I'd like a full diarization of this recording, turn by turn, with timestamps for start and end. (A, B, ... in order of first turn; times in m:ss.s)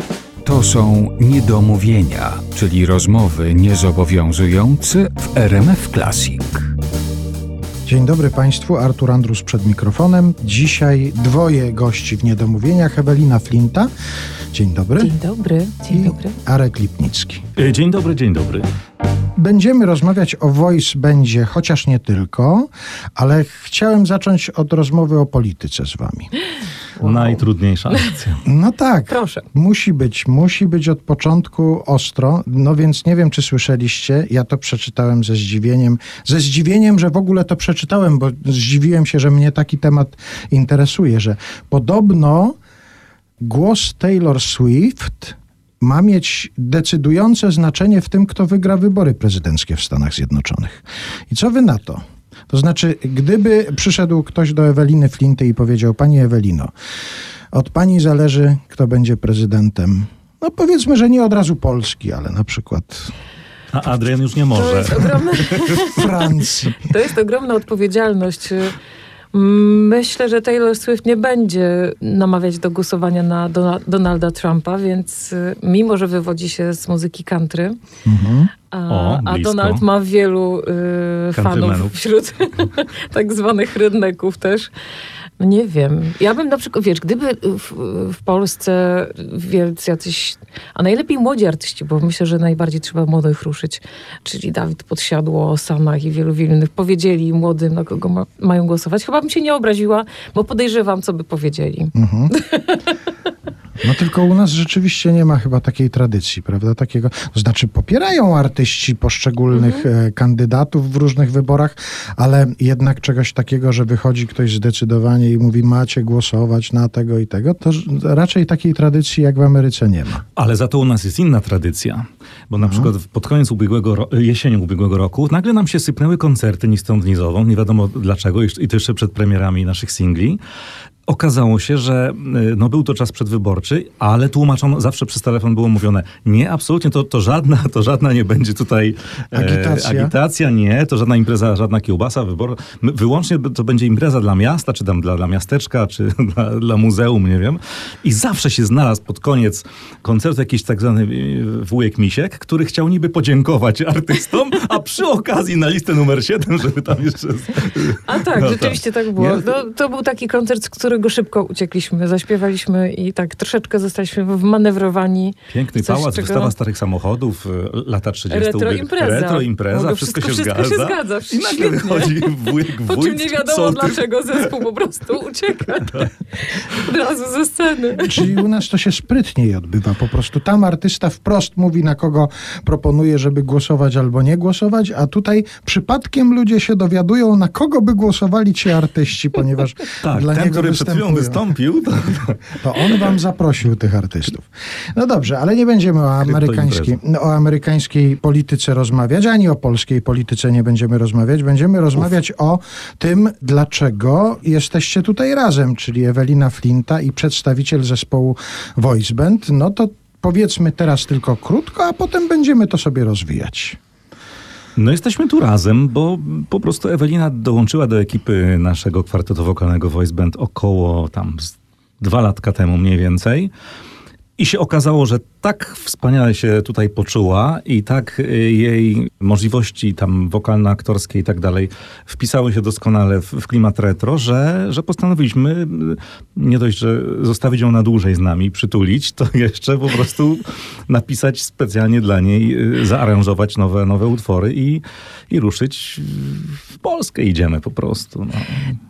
0:00.4-0:06.7 A
0:07.8-0:13.9 B
0:14.5-0:15.1 B
0:15.0-0:16.4 C
0:15.9-0:17.4 B
0:17.6-0:18.7 D
0:19.4-0:26.3 B
0:27.0-0:27.4 C
0:27.0-0:28.4 D
0:28.4-0:42.6 B
0:29.1-0:29.4 C
0:43.4-0:56.7 B
0:57.5-1:03.1 B
1:03.7-1:05.5 D
1:04.6-1:06.0 C
1:05.9-1:06.8 B
1:06.8-1:08.7 C
1:09.3-1:17.8 C
1:18.0-1:18.5 B
1:18.7-1:24.7 C
1:18.9-1:19.8 D
1:21.3-1:21.9 D
1:25.4-1:42.8 C
1:41.9-1:42.3 B
1:43.8-2:00.2 B
1:49.5-1:49.8 C
2:00.4-2:10.4 D
2:02.6-2:02.9 B
2:11.1-2:39.5 D
2:19.3-2:20.1 B
2:38.1-2:46.5 C
2:45.5-2:54.4 D
2:48.3-2:58.0 C
2:58.0-3:11.4 B
3:10.0-3:13.0 D
3:12.6-3:33.8 B
3:16.2-3:16.9 D
3:34.8-3:43.5 D
3:44.4-4:08.8 D